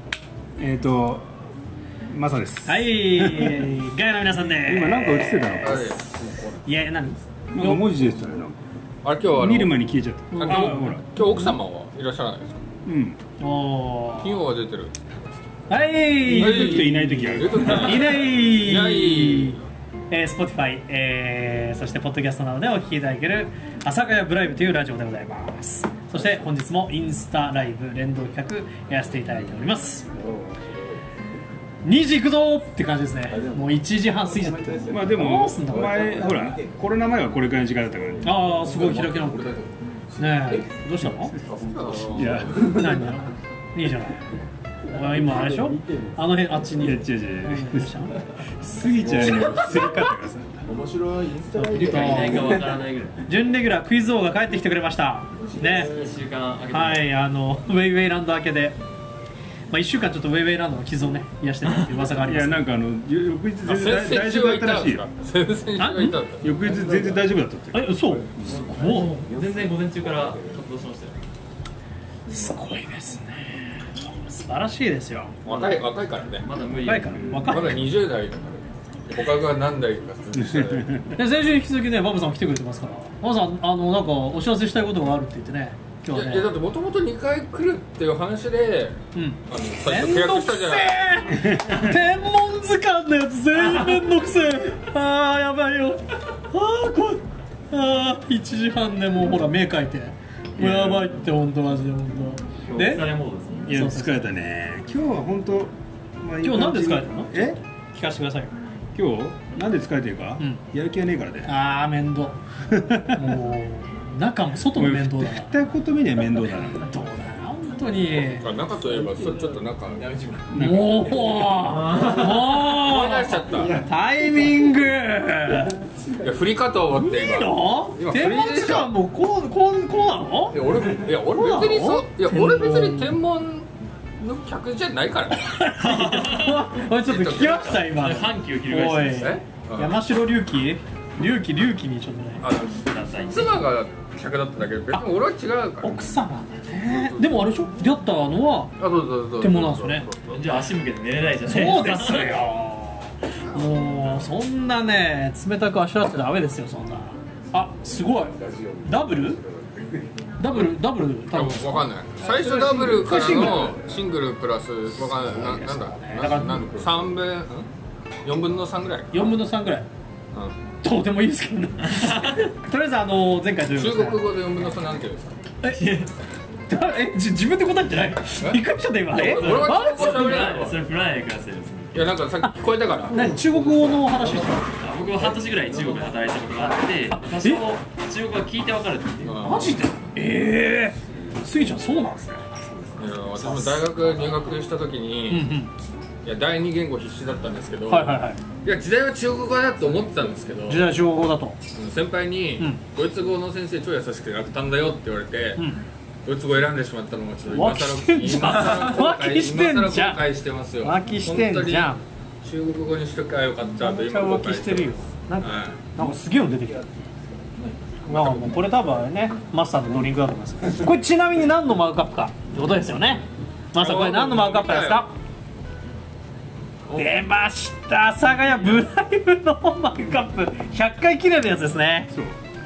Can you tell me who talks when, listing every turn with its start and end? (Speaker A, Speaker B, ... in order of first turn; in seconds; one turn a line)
Speaker A: 0.6-1.3
Speaker A: 2.1-3.7
Speaker B: 2.7-6.0
Speaker A: 4.6-5.9
Speaker C: 5.6-6.1
Speaker D: 6.0-6.7
Speaker B: 6.6-7.9
Speaker A: 7.5-8.6
Speaker C: 9.0-9.8
Speaker A: 9.3-11.2
Speaker B: 10.3-11.0
Speaker C: 10.3-12.6
Speaker A: 12.8-13.2
Speaker B: 13.4-14.4
Speaker C: 14.2-15.2
Speaker B: 15.7-30.1
Speaker A: 16.2-18.1
Speaker C: 16.3-19.6
Speaker D: 29.2-31.0
Speaker B: 31.8-36.0
Speaker D: 33.3-36.8
Speaker A: 34.9-38.3
Speaker D: 38.2-40.7
Speaker B: 38.2-39.4
Speaker B: 40.2-41.3
Speaker C: 41.4-42.6
Speaker A: 42.0-43.1
Speaker D: 42.1-42.4
Speaker B: 42.6-44.2
Speaker B: 44.8-48.1
Speaker D: 45.1-46.1
Speaker A: 46.8-48.0
Speaker A: 48.6-50.7
Speaker D: 48.9-50.0
Speaker D: 50.6-52.8
Speaker B: 51.5-55.9
Speaker E: 51.7-53.2
Speaker D: 55.4-56.1
Speaker E: 55.5-57.1
Speaker B: 56.7-58.8
Speaker B: 59.7-62.6
Speaker E: 61.6-62.0
Speaker A: 62.2-65.0
Speaker C: 63.6-66.5
Speaker B: 65.8-66.2
Speaker A: 66.4-68.5
Speaker D: 66.4-67.3
Speaker B: 67.7-69.2
Speaker D: 68.3-70.7
Speaker E: 68.7-71.2
Speaker B: 72.3-75.3
Speaker C: 75.4-76.5
Speaker E: 75.5-77.7
Speaker B: 76.8-77.8
Speaker C: 77.4-81.1
Speaker A: 80.3-81.1
Speaker B: 81.2-86.5
Speaker C: 86.1-91.3
Speaker B: 89.1-103.1
Speaker A: 91.3-91.8
Speaker A: 100.6-101.0
Speaker E: 102.6-103.8
Speaker B: 103.6-104.3
Speaker A: 103.6-107.6
Speaker B: 106.4-108.5
Speaker A: 108.9-111.5
Speaker B: 111.5-112.4
Speaker A: 112.7-113.3
Speaker B: 113.1-115.5
Speaker A: 114.7-116.9
Speaker B: 116.5-118.5
Speaker C: 118.4-120.1
Speaker D: 119.2-120.5
Speaker A: 120.5-121.1
Speaker B: 120.5-125.8
Speaker D: 121.1-122.4
Speaker C: 122.6-123.8
Speaker C: 126.2-128.9
Speaker B: 126.9-130.7
Speaker D: 130.5-131.1
Speaker C: 130.7-133.7
Speaker B: 131.3-133.1
Speaker C: 134.2-135.5
Speaker B: 135.4-142.4
Speaker E: 135.8-136.6
Speaker C: 136.9-137.9
Speaker E: 137.9-139.4
Speaker C: 139.7-140.0
Speaker C: 142.4-146.0
Speaker E: 142.8-143.7
Speaker B: 145.8-148.8
Speaker C: 146.8-147.4
Speaker C: 148.8-150.4
Speaker B: 149.4-150.1
Speaker E: 150.3-152.4
Speaker B: 151.4-159.4
Speaker D: 157.8-160.1
Speaker B: 160.4-161.9
Speaker C: 161.3-167.7
Speaker D: 162.2-164.0
Speaker B: 162.8-163.8
Speaker B: 165.0-166.8
Speaker D: 166.8-167.0
Speaker C: 168.2-169.3
Speaker B: 169.1-169.8
Speaker B: 170.8-174.3
Speaker E: 171.8-172.5
Speaker C: 173.7-175.3
Speaker B: 175.6-175.9
Speaker E: 175.7-176.1
Speaker B: 176.7-180.5
Speaker C: 178.4-180.8
Speaker E: 179.2-182.1
Speaker C: 181.9-183.3
Speaker B: 183.1-184.8
Speaker D: 183.3-186.8
Speaker E: 184.8-189.5
Speaker B: 187.3-187.6
Speaker C: 189.2-189.8
Speaker B: 189.4-192.6
Speaker E: 192.6-193.1
Speaker C: 193.0-195.5
Speaker B: 193.4-193.8
Speaker B: 195.3-195.7
Speaker C: 196.2-200.9
Speaker B: 197.9-198.4
Speaker B: 200.7-201.6
Speaker C: 201.7-205.6
Speaker B: 205.6-205.8
Speaker C: 206.2-215.8
Speaker B: 207.5-210.3
Speaker E: 208.5-208.8
Speaker B: 210.8-212.0
Speaker B: 213.8-216.8
Speaker D: 216.0-216.8
Speaker D: 217.5-218.4
Speaker B: 218.1-225.1
Speaker C: 218.1-218.5
Speaker C: 223.8-225.1
Speaker B: 226.9-232.1